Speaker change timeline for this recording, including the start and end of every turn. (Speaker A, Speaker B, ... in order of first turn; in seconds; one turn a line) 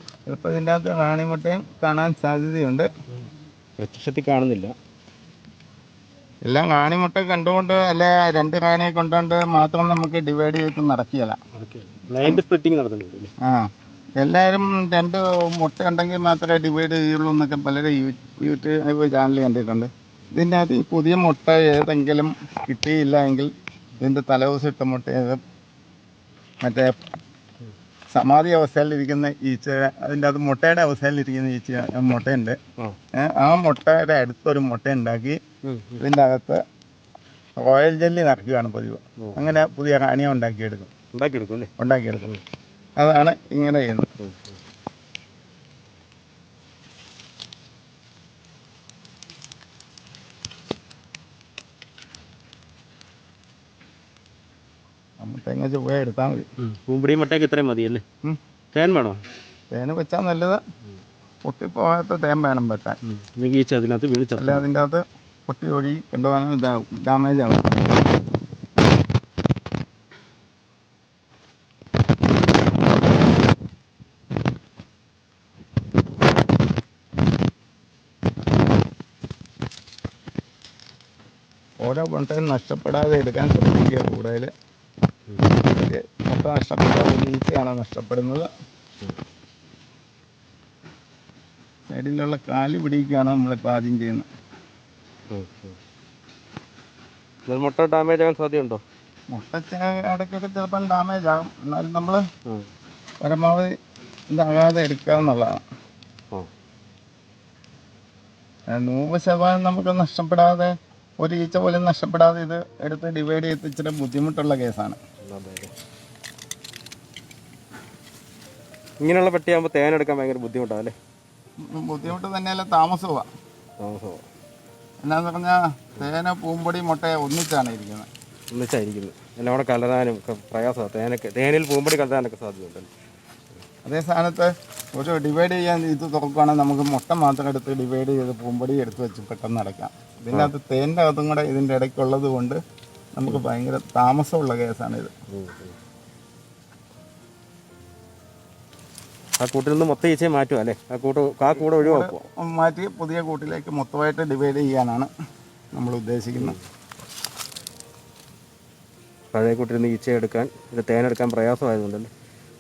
Speaker A: 0.3-2.9
Speaker B: 3.8-4.8
Speaker A: 6.4-11.4
Speaker B: 11.6-13.3
Speaker A: 13.4-25.4
Speaker A: 26.6-27.0
Speaker A: 28.1-32.6
Speaker A: 33.1-35.4
Speaker B: 35.7-36.0
Speaker A: 36.0-36.6
Speaker A: 37.6-40.9
Speaker B: 41.1-41.7
Speaker A: 41.8-42.3
Speaker A: 43.0-44.1
Speaker A: 55.2-56.5
Speaker B: 56.6-58.0
Speaker B: 58.7-59.2
Speaker A: 59.7-60.6
Speaker A: 61.5-63.0
Speaker B: 63.1-64.7
Speaker A: 64.4-68.0
Speaker A: 81.8-84.5
Speaker A: 85.8-88.5
Speaker A: 91.9-94.3
Speaker B: 95.3-95.8
Speaker B: 97.5-98.8
Speaker A: 99.3-102.2
Speaker A: 103.2-103.7
Speaker A: 104.3-105.6
Speaker A: 108.7-115.0
Speaker B: 115.2-115.7
Speaker B: 119.0-120.9
Speaker A: 121.7-123.3
Speaker B: 123.8-124.2
Speaker A: 125.0-128.1
Speaker B: 128.5-132.9
Speaker A: 133.8-142.6
Speaker A: 143.2-145.1
Speaker B: 145.3-145.8
Speaker B: 149.4-152.2
Speaker A: 151.8-155.1
Speaker A: 155.8-156.6
Speaker B: 159.3-162.1